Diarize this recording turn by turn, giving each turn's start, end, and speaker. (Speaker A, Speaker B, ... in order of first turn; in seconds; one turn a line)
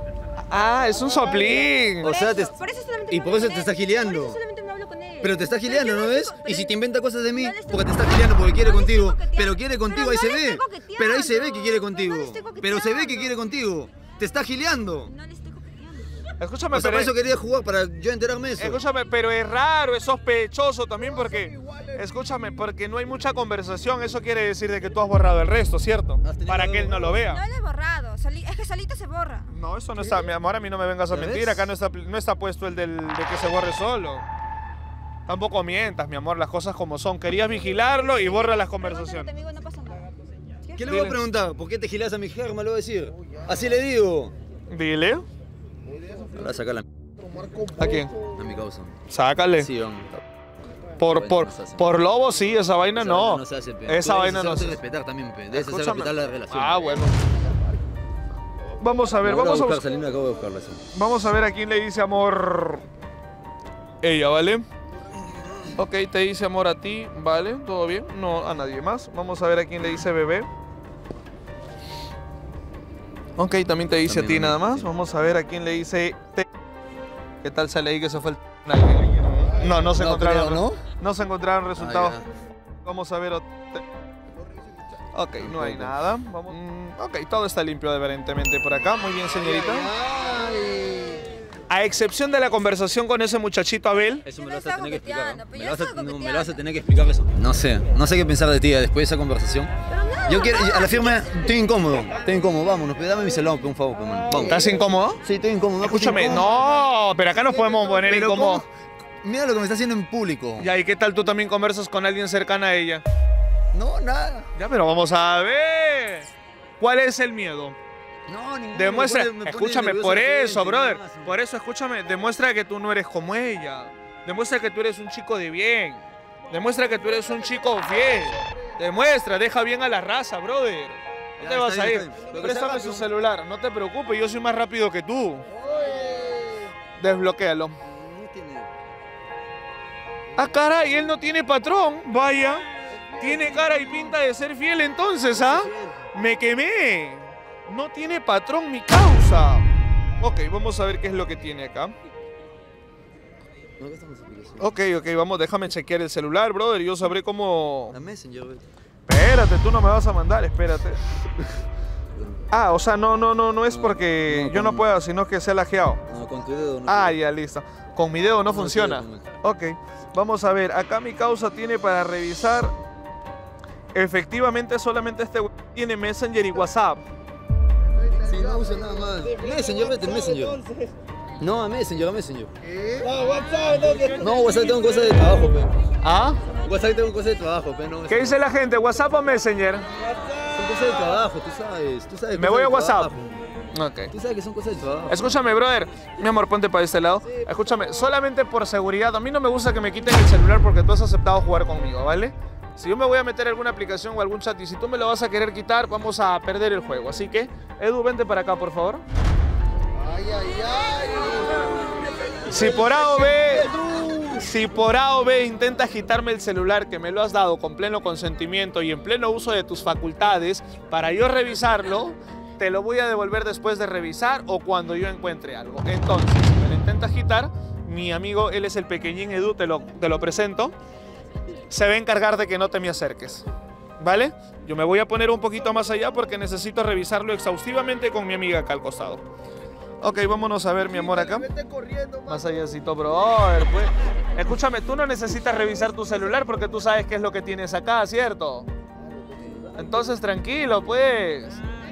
Speaker A: 0.5-2.1
Speaker B: 2.0-2.5
Speaker C: 2.0-6.8
Speaker B: 3.1-4.4
Speaker B: 5.2-15.1
Speaker C: 7.3-13.4
Speaker C: 15.0-16.3
Speaker A: 16.4-17.1
Speaker B: 16.7-18.8
Speaker A: 18.6-27.4
Speaker B: 26.2-27.2
Speaker C: 27.2-29.5
Speaker A: 29.5-34.2
Speaker B: 31.1-31.7
Speaker A: 35.3-39.3
Speaker C: 38.1-40.9
Speaker B: 40.8-44.3
Speaker A: 40.9-41.2
Speaker A: 44.7-45.2
Speaker B: 46.2-46.9
Speaker A: 47.8-48.1
Speaker B: 48.2-49.0
Speaker A: 49.1-49.7
Speaker B: 49.6-50.2
Speaker A: 51.0-54.8
Speaker B: 51.0-51.9
Speaker B: 52.9-57.0
Speaker A: 55.5-57.1
Speaker A: 58.8-59.8
Speaker B: 59.2-60.8
Speaker A: 60.9-62.8
Speaker A: 64.0-64.6
Speaker A: 65.8-70.5
Speaker A: 73.4-76.5
Speaker B: 74.0-74.9
Speaker A: 77.4-82.2
Speaker B: 79.9-80.8
Speaker B: 81.8-82.3
Speaker A: 82.8-83.8
Speaker A: 85.1-89.9
Speaker B: 85.4-86.5
Speaker B: 90.2-90.5
Speaker A: 91.7-94.2
Speaker B: 94.2-99.7
Speaker C: 94.3-96.6
Speaker C: 99.9-101.3
Speaker B: 100.2-106.5
Speaker A: 104.3-105.2
Speaker A: 105.8-108.6
Speaker B: 108.0-108.6
Speaker B: 109.2-110.7
Speaker A: 110.6-113.0
Speaker B: 113.7-114.5
Speaker A: 114.5-116.3
Speaker A: 116.8-117.8
Speaker B: 118.3-121.4
Speaker A: 118.7-135.5
Speaker B: 131.4-133.1
Speaker B: 135.5-136.7
Speaker A: 137.0-137.8
Speaker B: 137.8-138.8
Speaker A: 140.3-149.7
Speaker B: 143.1-144.1
Speaker B: 145.3-146.1
Speaker A: 150.2-151.9
Speaker B: 153.8-154.8
Speaker A: 154.6-158.0
Speaker B: 157.9-158.7
Speaker A: 159.1-161.0
Speaker B: 162.1-162.4
Speaker A: 162.5-166.0
Speaker B: 163.7-164.9
Speaker B: 166.1-167.2
Speaker A: 166.9-172.7
Speaker B: 168.5-169.3
Speaker A: 173.9-177.0
Speaker B: 178.2-180.6
Speaker B: 181.4-183.0
Speaker B: 184.1-185.7
Speaker A: 186.0-186.4
Speaker B: 186.6-188.4
Speaker A: 188.1-189.9
Speaker B: 190.5-193.5
Speaker A: 192.3-193.1
Speaker A: 193.7-194.1
Speaker B: 194.1-195.3
Speaker A: 195.1-209.0
Speaker B: 197.3-197.7
Speaker A: 212.5-213.7
Speaker B: 212.7-214.3
Speaker A: 214.3-230.7
Speaker A: 231.7-233.4
Speaker A: 234.0-239.2
Speaker A: 240.0-241.5
Speaker B: 240.9-242.4
Speaker A: 242.3-248.7
Speaker B: 249.1-250.1
Speaker A: 249.8-251.6